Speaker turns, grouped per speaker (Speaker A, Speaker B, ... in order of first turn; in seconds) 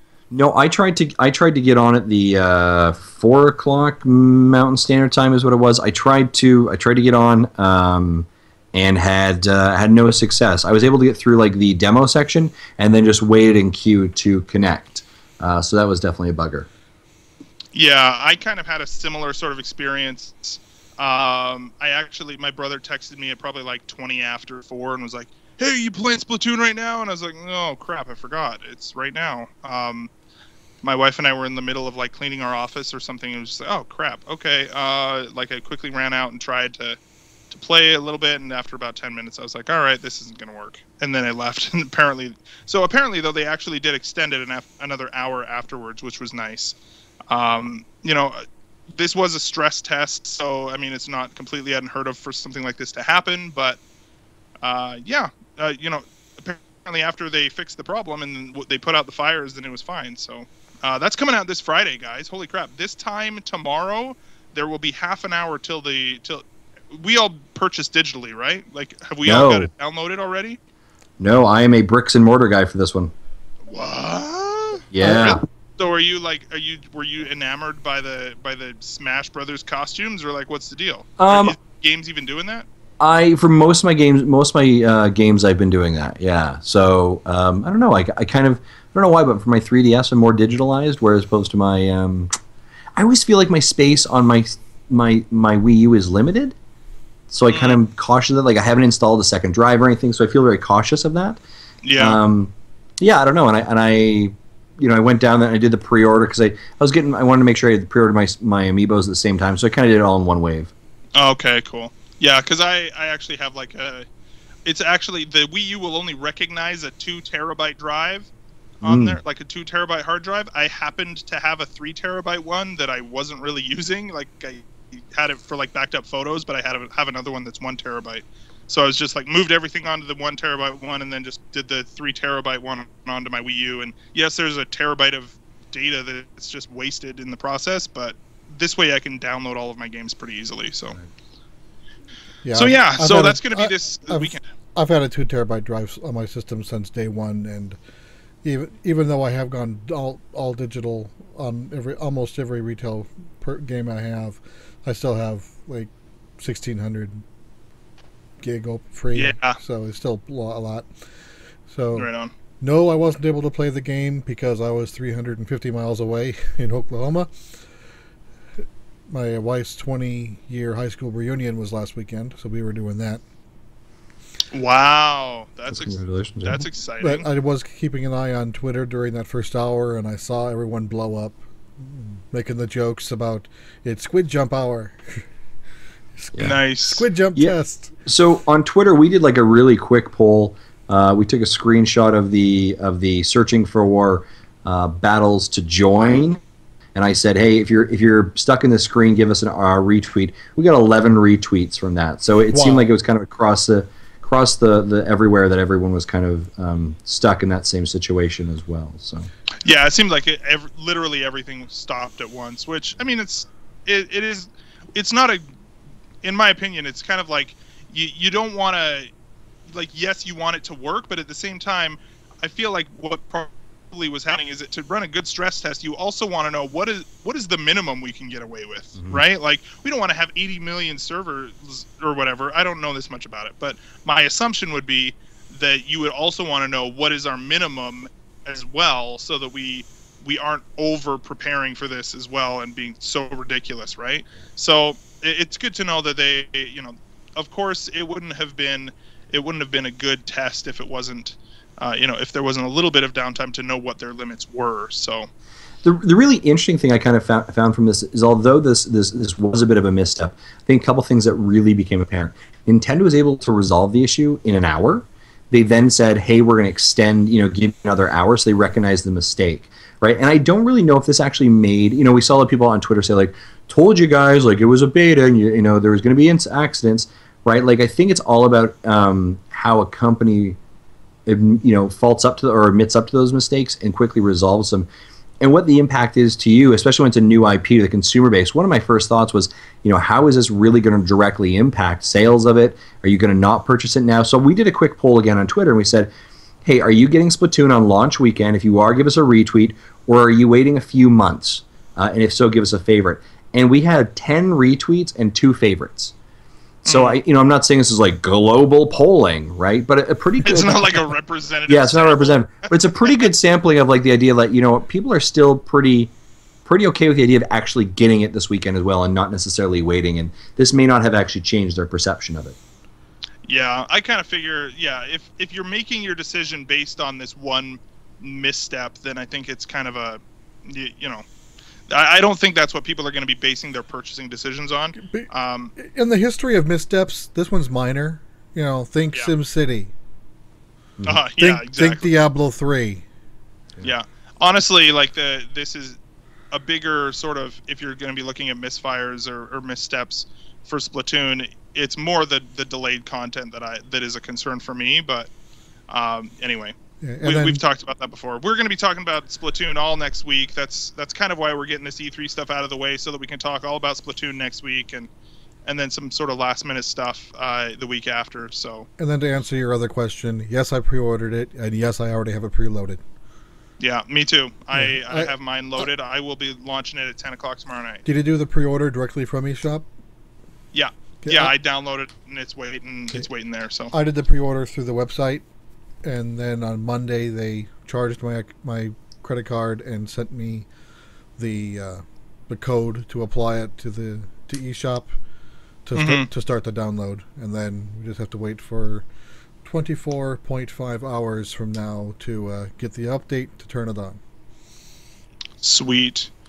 Speaker A: 0.3-16.7, 69.2-69.7, 71.2-73.1, 74.9-75.4, 81.2-81.5, 83.0-92.3, 93.0-96.5, 97.3-101.4, 102.0-110.7, 118.8-119.2, 175.7-176.6, 186.3-186.6, 188.0-196.4, 196.9-209.3, 228.9-229.2, 255.8-280.6, 281.2-284.9, 285.4-296.1, 296.6-306.1, 306.9-310.9, 311.7-316.1, 316.6-322.6
Speaker B: 17.7-30.1, 30.8-37.0, 37.5-46.8, 47.3-48.4, 48.9-53.8, 54.6-70.6, 73.7-82.7, 97.5-97.8, 101.8-102.2, 111.2-114.0, 114.6-118.3, 118.8-141.0, 142.5-144.4, 159.1-159.6, 161.9-162.3, 174.5-177.3, 186.4-187.0, 209.6-215.4, 216.2-219.1, 219.7-255.3, 306.8-307.2, 310.4-313.3, 323.4-331.2, 331.9-335.7, 341.0-342.1, 343.8-346.0, 346.5-355.3, 355.9-365.1, 365.6-368.9, 373.8-378.0, 380.7-383.9, 395.9-396.3, 405.6-406.3
Speaker C: 142.4-147.8, 148.4-157.2, 158.4-160.9, 161.7-162.1, 162.6-167.3, 169.1-173.2, 177.0-185.2, 186.2-187.9, 202.5-202.9, 335.0-339.9, 341.4-343.0, 357.0-357.6, 369.0-373.0, 374.7-375.3, 378.0-379.9, 381.2-381.5, 383.9-385.4, 386.0-390.7, 391.4-395.1, 395.9-399.1, 399.6-404.2